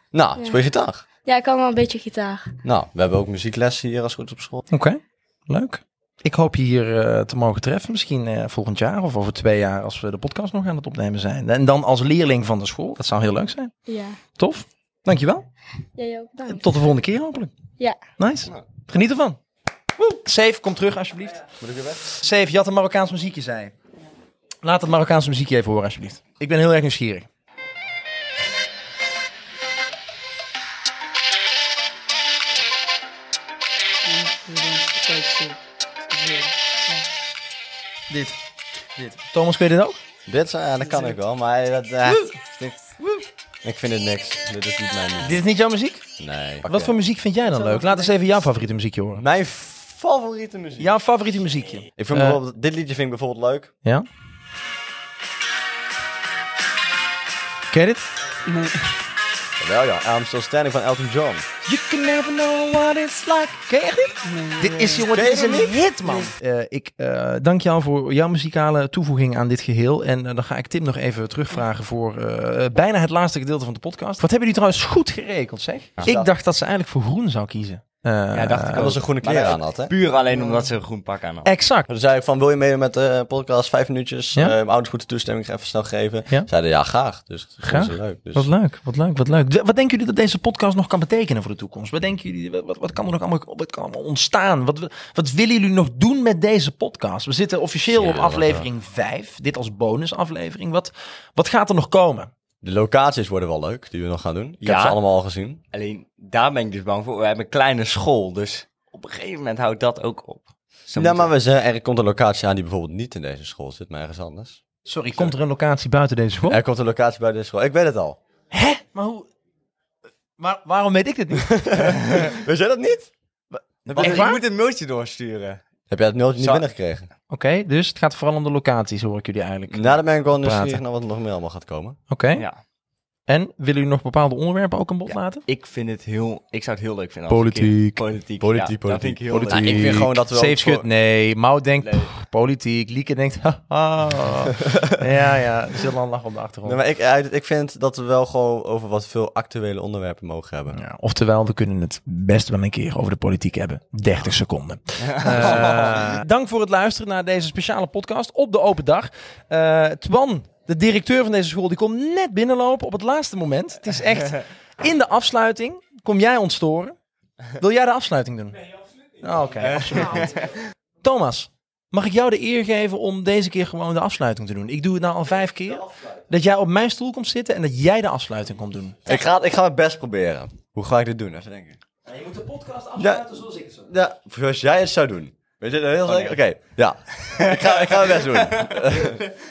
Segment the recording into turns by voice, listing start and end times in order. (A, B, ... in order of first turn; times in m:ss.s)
0:00.1-0:01.0 A
0:01.2-0:02.5 B
0:02.6-0:04.6 A
0:04.7-0:13.7 C
0:13.9-0:14.2 B
0:14.3-0:15.4 C
0:16.0-0:16.6 B
0:16.4-0:17.5 C
0:18.2-0:19.4 C
0:20.0-0:21.4 C
0:21.6-0:22.1 A
0:22.2-0:23.7 C
0:24.6-0:27.3 C
0:34.0-0:37.1 D
0:38.1-0:38.4 C
0:39.0-0:40.0 C
0:40.3-0:42.3 A
0:40.8-0:41.2 D
0:42.1-0:42.3 C
0:43.0-0:43.2 C
0:43.6-0:45.4 A
0:45.2-0:46.0 C
0:46.2-0:46.9 A
0:46.6-0:49.2 C
0:47.4-0:48.4 D
0:49.2-0:50.9 A
0:50.8-0:52.4 C
0:52.0-0:53.7 A
0:57.7-0:58.1 C
0:58.4-0:58.8 D
0:59.6-1:01.4 A
1:01.6-1:18.9 C
1:04.2-1:05.1 D
1:05.1-1:05.8 A
1:16.0-1:16.3 A
1:18.3-1:21.5 E
1:18.8-1:19.9 A
1:20.2-1:20.7 D
1:21.4-1:21.9 C
1:21.9-1:28.5 A
1:27.6-1:42.3 C
1:37.9-1:38.6 A
1:42.6-1:45.6 A
1:44.6-1:45.0 E
1:45.7-1:51.3 E
1:50.9-1:54.6 A
1:54.8-1:56.6 C
1:56.5-1:58.2 A
1:58.5-1:59.3 C
2:00.4-2:01.6 C
2:01.4-2:03.1 A
2:03.5-2:04.4 C
2:03.9-2:04.3 A
2:04.0-2:05.6 E
2:05.9-2:07.1 A
2:06.4-2:06.6 E
2:07.3-2:10.8 C
2:09.7-2:12.0 A
2:12.1-2:12.4 C
2:12.4-2:12.6 E
2:13.3-2:15.4 C
2:15.1-2:20.0 E
2:17.3-2:18.0 C
2:18.4-2:20.9 A
2:19.3-2:26.8 C
2:21.8-2:22.1 E
2:26.6-2:30.8 A
2:30.7-2:46.9 C
2:35.0-2:36.1 E
2:47.6-2:48.6 C
2:49.2-2:50.5 C
2:49.6-2:50.6 E
2:51.0-2:59.1 C
2:59.0-3:01.8 A
3:02.1-3:03.9 C
3:03.0-3:09.2 A
3:06.1-3:06.4 E
3:07.3-3:09.3 E